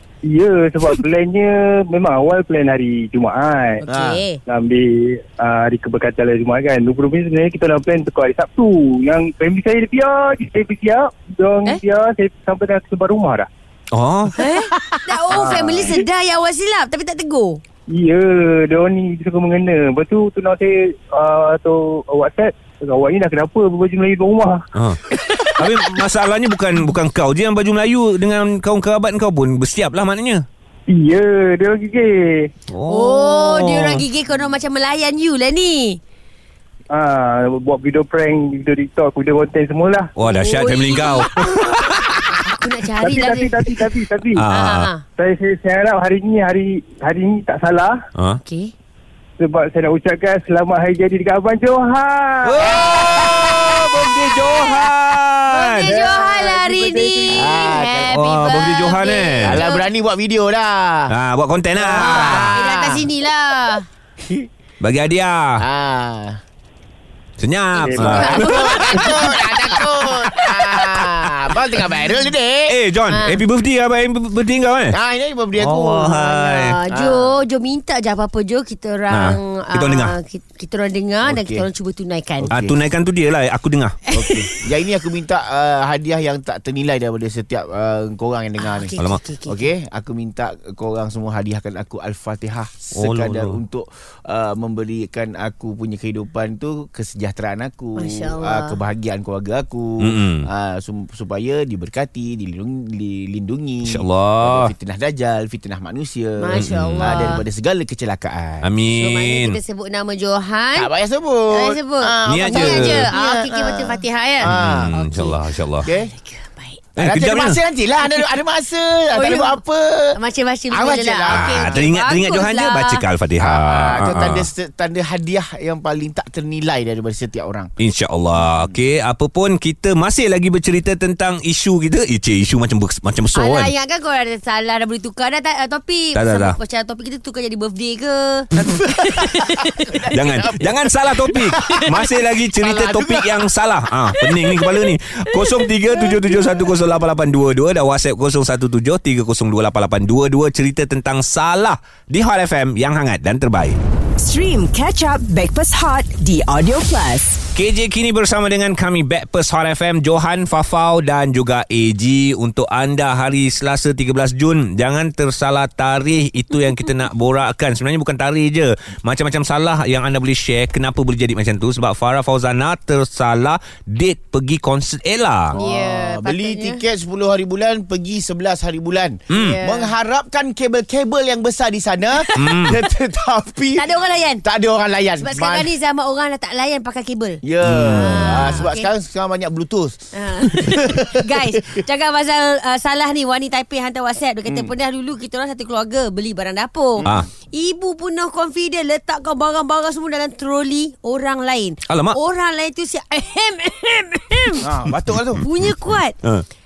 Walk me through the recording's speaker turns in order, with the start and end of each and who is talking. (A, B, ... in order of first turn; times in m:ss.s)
0:00.2-0:03.8 A
0:03.8-0:04.4 B
0:03.9-0:04.2 C
0:04.5-0:13.5 A
0:13.9-0:14.4 D
0:14.4-0:17.6 B
0:14.9-0:15.9 A
0:15.3-0:15.8 C
0:17.9-0:24.6 A
0:24.7-0:25.0 D
0:25.6-0:30.4 D
0:30.9-0:32.5 A
0:32.7-0:34.0 D
0:32.9-0:36.0 B
0:36.9-0:40.1 A
0:40.2-0:42.4 D
0:40.2-0:41.7 B
0:42.4-0:43.8 B
0:43.0-0:44.4 A
0:44.3-0:44.9 D
0:44.5-0:45.0 B
0:45.2-0:48.0 A
0:48.4-0:48.7 B
0:49.4-0:52.7 A
0:52.4-0:56.0 D
0:52.6-0:53.9 C
0:55.5-0:59.9 B
0:55.8-0:57.8 A
0:57.3-0:58.2 C
0:58.0-0:59.6 D
0:59.4-1:01.1 C
1:01.1-1:02.6 D
1:01.8-1:03.1 C
1:01.9-1:03.9 B
1:04.8-1:05.6 D
1:05.6-1:06.4 C
1:07.4-1:09.2 D
1:07.8-1:08.6 A
1:07.8-1:09.3 B
1:08.0-1:12.8 C
1:10.0-1:11.1 D
1:12.7-1:15.0 D
1:13.1-1:13.4 B
1:14.9-1:17.4 C
1:15.6-1:16.8 D
1:16.2-1:22.5 B
1:19.1-1:20.2 D
1:21.2-1:21.7 C
1:22.4-1:22.7 C
1:22.5-1:24.0 D
1:24.1-1:24.6 B
1:24.1-1:28.9 C
1:28.6-1:29.7 B
1:29.4-1:48.7 C
1:33.0-1:33.6 D
1:38.0-1:38.8 B
1:40.0-1:40.5 D
1:43.8-1:44.7 D
1:46.4-1:47.4 B
1:46.5-1:47.4 D
1:48.6-1:49.6 D
1:48.9-1:50.9 B
1:50.7-1:54.9 C
1:51.5-1:56.8 B
1:52.3-1:53.1 D
1:54.4-1:55.9 D
1:55.8-1:56.1 C
1:57.0-1:57.6 D
1:57.0-2:00.2 C
1:59.1-1:59.6 B
2:00.1-2:03.0 B
2:00.7-2:01.9 C
2:01.3-2:04.5 D
2:03.4-2:07.7 C
2:07.8-2:13.7 D
2:08.3-2:08.8 C
2:13.3-2:20.0 B
2:16.1-2:16.6 D
2:18.6-2:22.0 C
2:20.1-2:33.8 D
2:21.6-2:22.0 B
2:22.6-2:23.4 C
2:24.2-2:26.7 B
2:34.2-2:37.4 E
2:37.6-2:55.5 D
2:55.5-3:03.9 C
2:55.5-2:56.8 B
2:59.3-2:59.6 D
2:59.3-2:59.9 B
3:02.2-3:02.6 B
3:02.4-3:02.8 D
3:03.7-3:04.4 B
3:04.4-3:05.7 C
3:05.2-3:08.9 B
3:07.4-3:11.8 C
3:07.6-3:08.6 D
3:10.1-3:24.7 B
3:14.4-3:14.7 C
3:17.0-3:17.3 C
3:21.9-3:22.2 D
3:24.6-3:25.4 C
3:25.4-3:25.7 D
3:25.4-3:26.2 B